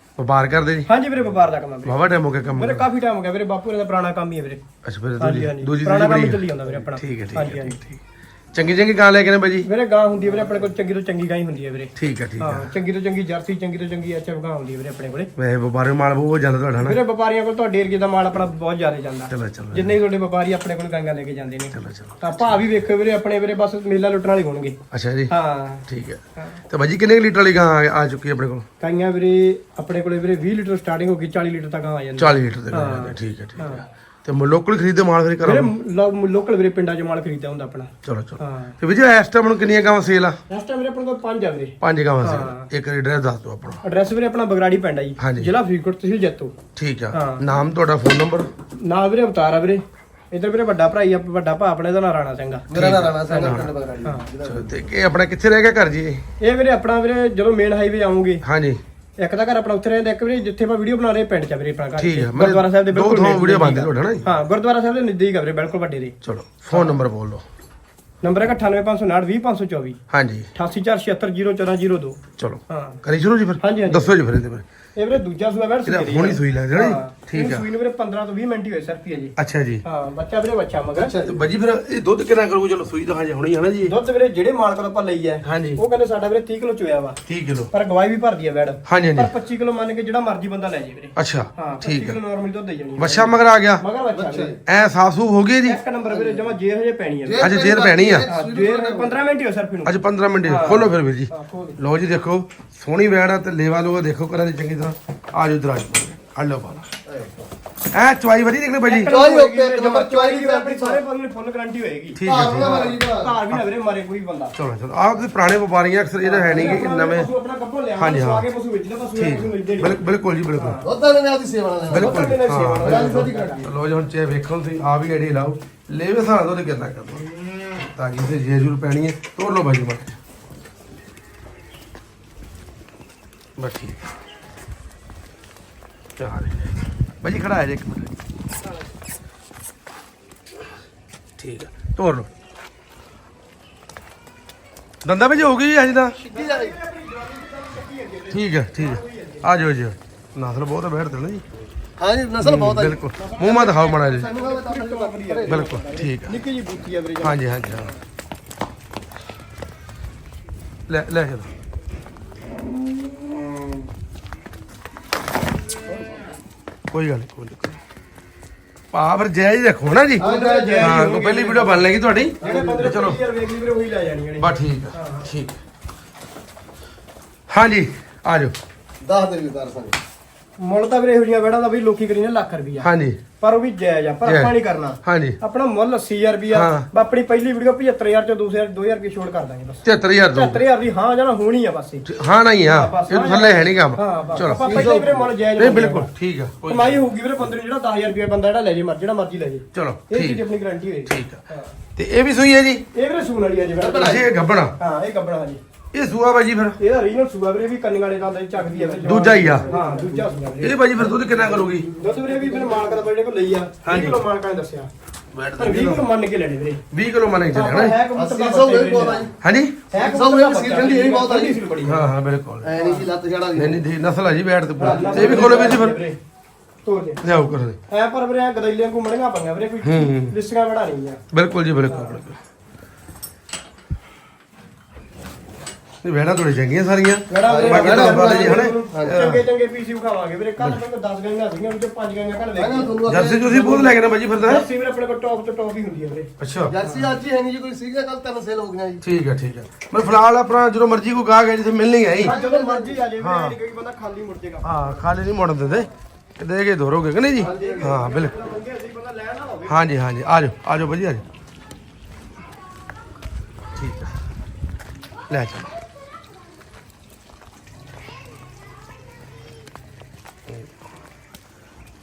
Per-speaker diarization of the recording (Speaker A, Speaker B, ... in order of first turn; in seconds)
Speaker A: 0.2-0.9, 1.8-2.9, 4.8-8.0, 8.5-9.7, 12.0-12.7, 15.4-17.0, 19.3-20.0, 21.7-22.4, 24.9-25.3, 25.9-28.6, 32.2-35.7, 38.0-40.4, 41.8-43.8, 45.2-45.5, 46.8-48.5, 52.7-53.7, 54.5-56.2, 58.4-58.8, 62.0-64.3, 66.2-67.4, 70.1-70.5, 72.4-74.7, 75.8-77.7, 79.4-79.8, 81.2-84.0, 85.5-85.8, 87.3-87.7, 88.9-89.3, 91.2-92.2, 93.0-93.8, 94.7-95.8, 97.4-98.3, 99.8-106.9, 107.9-109.2, 112.2-113.0, 114.6-117.3, 118.0-118.5, 119.2-120.8, 121.9-127.3, 127.8-130.2, 133.6-134.0, 136.2-138.2, 141.4-142.3, 145.0-146.2, 148.3-151.4, 152.4-154.3, 155.5-156.4, 157.2-157.9, 160.9-161.5, 166.9-167.8, 168.9-170.3, 170.8-173.2, 174.4-175.6, 177.5-178.6, 182.8-183.2, 184.2-185.4, 186.5-186.9, 189.8-190.6, 192.1-194.9, 195.6-197.0, 199.7-200.4, 201.1-201.4, 202.0-202.8, 204.0-204.8, 205.9-206.8, 209.0-209.7, 210.6-211.9, 213.8-214.2, 215.3-216.1, 216.9-218.0, 219.4-219.9, 221.8-222.7, 223.6-226.0, 227.2-227.8, 229.8-230.3, 231.3-232.4, 236.0-239.4, 243.1-244.7, 246.4-246.7, 249.0-252.3, 253.2-253.6, 254.6-258.4, 259.7-261.2, 263.8-264.1, 265.3-265.7
Speaker B: 0.9-2.0, 2.5-4.6, 5.2-7.8, 9.6-15.3, 16.8-24.8, 25.3-25.9, 28.8-33.9, 35.4-38.7, 40.5-42.7, 43.8-46.5, 47.1-47.4, 48.8-52.6, 56.4-58.4, 59.2-66.2, 66.7-67.0, 68.2-70.0, 70.5-73.0, 73.6-74.1, 75.0-81.1, 83.8-87.2, 87.7-94.5, 95.6-97.5, 98.3-101.8, 108.8-114.5, 116.2-120.0, 120.5-120.8, 121.9-123.7, 146.2-149.5, 153.2-157.9, 170.2-171.9, 172.4-175.3, 180.6-192.1, 192.6-196.1, 196.7-201.7, 202.9-204.2, 204.8-205.6, 206.8-210.8, 212.0-214.9, 215.6-216.8, 217.5-219.3, 219.9-222.0, 222.8-223.1, 224.8-226.2, 226.8-227.2, 227.9-231.2, 231.9-232.2, 237.3-243.0, 244.4-246.3, 246.8-247.2, 252.2-255.0, 257.4-259.9
Speaker C: 52.7-54.8, 81.0-81.4, 94.1-94.6, 96.1-96.5, 97.2-99.2, 107.1-107.5, 109.0-111.0, 112.2-113.3, 120.8-123.7, 146.3-146.8, 152.0-155.7, 170.2-171.1, 172.4-172.9, 179.0-180.0, 194.4-195.3, 203.8-204.3, 208.6-210.3, 211.4-213.0, 218.1-219.3, 219.9-221.6, 222.6-223.8, 224.8-225.8, 237.5-239.2, 242.6-243.9, 246.7-249.0, 252.2-253.0, 257.4-258.0